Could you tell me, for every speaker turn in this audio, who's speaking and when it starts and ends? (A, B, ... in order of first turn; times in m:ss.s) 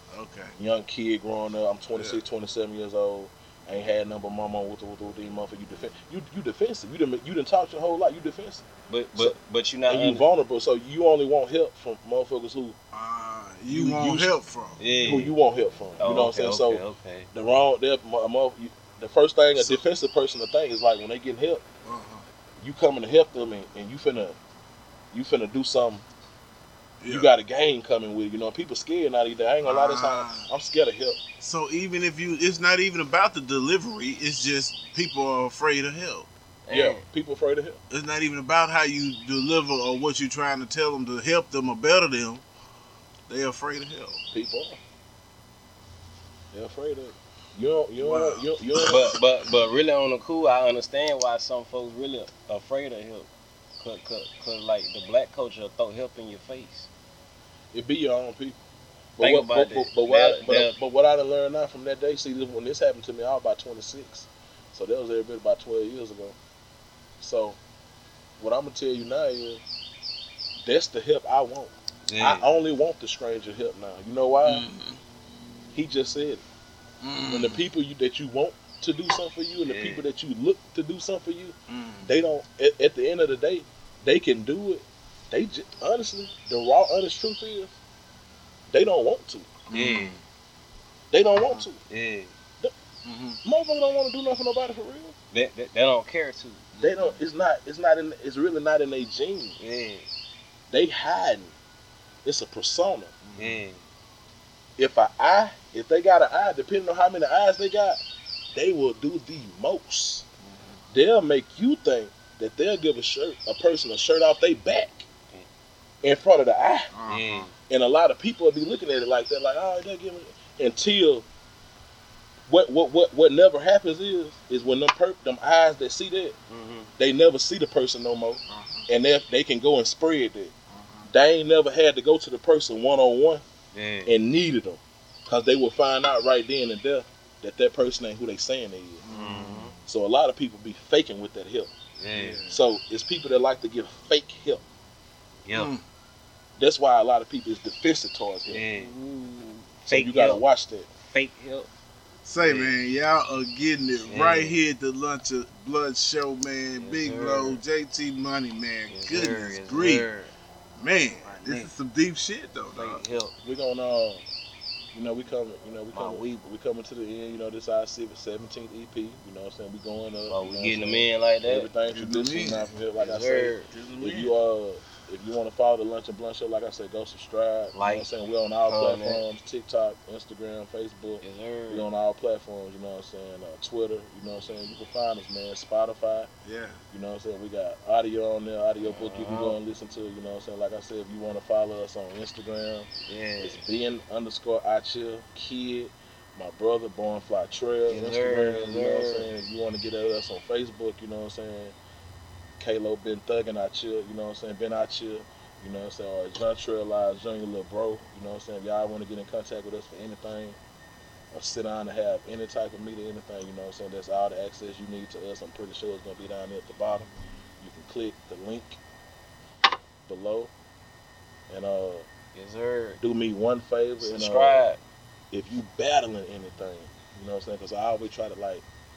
0:00.1-0:00.6 A
0:00.6-0:12.8 B
0:02.0-0:02.2 A
0:08.9-0:10.2 C
0:12.9-0:14.8 A
0:13.7-0:14.3 B
0:14.8-0:15.4 C
0:15.0-0:21.6 B
0:16.0-0:17.3 C
0:19.6-0:19.8 A
0:21.8-0:22.2 A
0:22.6-0:24.4 B
0:25.1-0:26.0 B
0:27.0-0:27.3 A
0:27.1-0:31.2 B
0:29.6-0:30.5 A
0:31.4-0:36.3 A
0:36.7-0:37.0 C
0:36.7-0:37.8 B
0:37.9-0:42.4 A
0:43.3-0:44.2 A
0:44.3-0:44.8 B
0:46.5-0:49.2 B
0:48.0-0:49.2 A
0:48.9-0:53.3 C
0:53.8-0:56.9 C
0:57.7-0:58.6 B
0:59.2-1:06.4 B
0:59.2-1:00.7 C
1:07.2-1:07.6 B
1:08.4-1:09.6 B
1:10.6-1:14.7 B
1:12.1-1:12.5 C
1:14.4-1:15.0 A
1:15.7-1:16.4 B
1:17.0-1:17.6 A
1:17.3-1:27.7 B
1:19.7-1:20.0 C
1:21.7-1:22.1 A
1:28.7-1:29.5 B
1:29.7-1:30.2 A
1:29.7-1:30.2 C
1:31.1-1:31.8 B
1:31.8-1:32.3 C
1:33.0-1:33.4 A
1:33.4-1:35.2 B
1:35.3-1:36.7 C
1:36.8-1:37.2 A
1:36.8-1:39.6 B
1:39.6-1:40.1 C
1:40.7-1:41.5 B
1:42.2-1:43.2 B
1:43.2-1:43.6 A
1:43.4-1:43.8 C
1:44.8-1:48.0 B
1:48.5-1:50.2 B
1:50.4-1:50.8 A
1:50.9-1:55.1 B
1:56.0-1:56.9 B
1:56.9-1:57.5 A
1:57.1-1:57.5 C
1:57.7-2:01.3 B
2:02.5-2:06.4 B
2:06.5-2:06.9 C
2:07.0-2:10.5 B
2:08.5-2:08.9 A
2:10.7-2:11.1 A
2:11.1-2:13.4 B
2:13.7-2:14.1 C
2:14.1-2:19.0 B
2:19.0-2:19.8 A
2:19.1-2:19.7 C
2:19.8-2:21.7 B
2:22.0-2:22.4 C
2:22.1-2:22.7 A
2:22.5-2:24.6 B
2:25.4-2:25.7 C
2:25.5-2:25.8 A
2:26.6-2:28.6 B
2:28.5-2:29.0 C
2:28.7-2:29.6 A
2:29.8-2:30.4 C
2:29.9-2:30.9 B
2:31.0-2:31.7 C
2:32.2-2:40.1 A
2:32.4-2:32.8 C
2:34.1-2:34.6 C
2:36.8-2:37.6 C
2:38.9-2:40.3 C
2:40.8-2:43.1 A
2:41.2-2:41.7 C
2:42.7-2:43.3 C
2:43.4-2:44.2 B
2:44.9-3:06.3 B
2:45.9-2:46.4 C
2:50.3-2:51.7 C
2:51.9-2:52.8 A
2:53.0-2:53.7 C
2:53.7-2:54.4 A
2:57.8-2:58.1 C
2:58.7-2:59.2 C
3:01.2-3:01.8 C
3:06.4-3:06.8 A
3:06.9-3:12.9 B
3:08.8-3:09.6 C
3:13.1-3:13.6 C
3:13.4-3:21.8 B
3:17.9-3:19.3 C
3:22.6-3:30.6 B
3:31.3-3:38.8 B
3:40.1-3:40.5 B
3:41.5-3:42.1 B
3:42.4-3:43.0 C
3:43.0-3:44.6 B
3:44.0-3:44.8 C
3:45.3-3:48.6 B